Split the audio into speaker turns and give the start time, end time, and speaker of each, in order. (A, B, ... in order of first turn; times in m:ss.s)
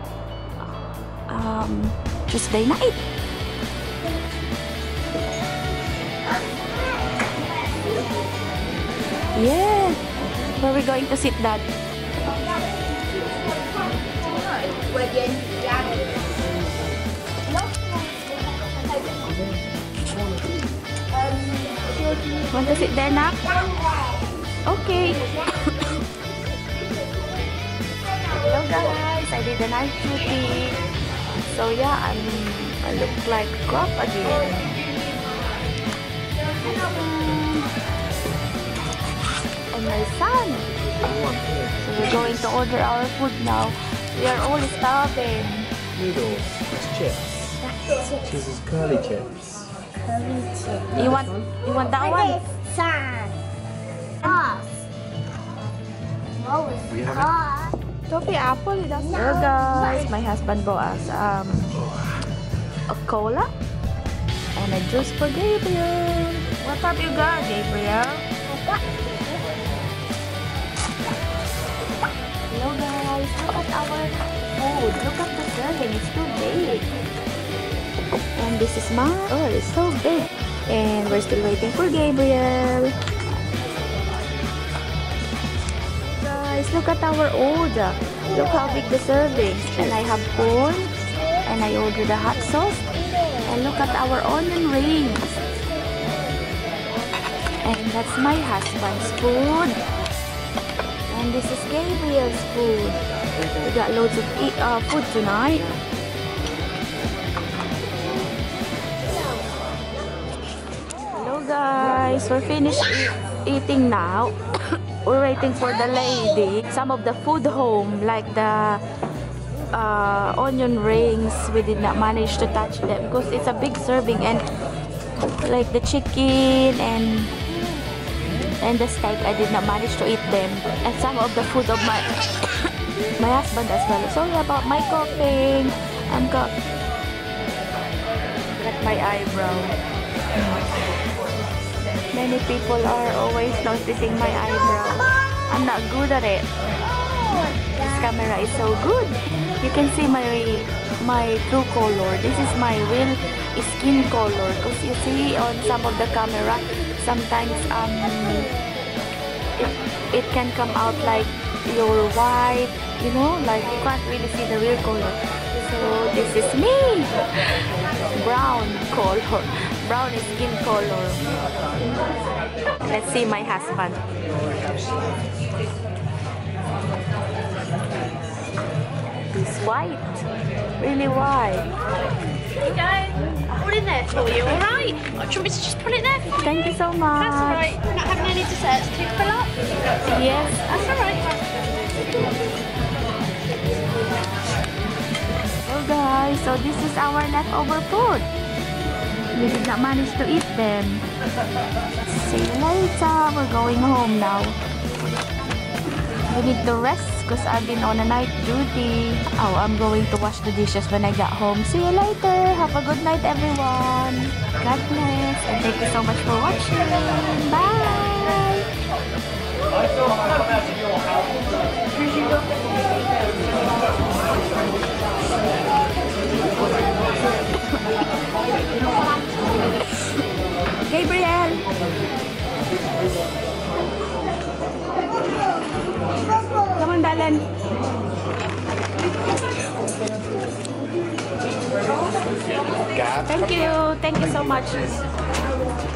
0:00.6-0:03.1 A
0:09.3-0:11.6 A
0:13.8-0:16.0 B
0:14.6-0:15.5 C
0:17.6-0:18.1 B
0:21.4-0:22.4 B
0:22.5-0:23.6 A
0:24.6-0:26.0 A
0:28.3-0:30.8 A
0:31.4-0:34.8 A
0:36.6-0:37.7 A
0:39.7-0:40.7 A
0:41.0-0:42.0 D
0:41.8-0:45.7 A
0:45.9-0:47.6 D
0:48.2-0:49.7 D
0:50.2-0:50.9 B
0:50.9-0:52.4 A
0:52.6-0:53.3 B
0:56.5-0:57.7 B
0:56.9-0:57.4 D
0:58.1-1:01.7 A
1:02.9-1:03.5 A
1:04.5-1:08.2 A
1:12.5-1:16.9 A
1:18.3-1:22.9 A
1:26.1-1:35.4 A
1:37.6-1:39.8 A
1:41.1-1:43.0 A
1:43.5-1:45.8 A
1:51.1-1:54.4 A
1:55.0-1:58.8 A
1:59.7-2:04.4 A
2:05.2-2:07.3 A
2:08.6-2:12.1 A
2:13.2-2:16.5 A
2:18.6-2:19.7 A
2:22.1-2:26.4 A
2:27.3-2:38.5 A
2:39.6-2:47.6 A
2:48.1-2:51.2 A
2:52.8-2:54.0 A
2:59.3-3:00.2 A
3:00.8-3:01.6 A
3:02.6-3:06.4 C
3:06.3-3:07.7 A
3:07.2-3:09.6 C
3:10.0-3:10.7 A
3:10.7-3:11.5 C
3:15.6-3:18.3 A
3:19.3-3:21.0 A
3:22.0-3:24.6 A
3:26.3-3:38.6 A
3:50.8-3:51.6 A
3:56.7-3:57.4 A
4:03.0-4:05.0 A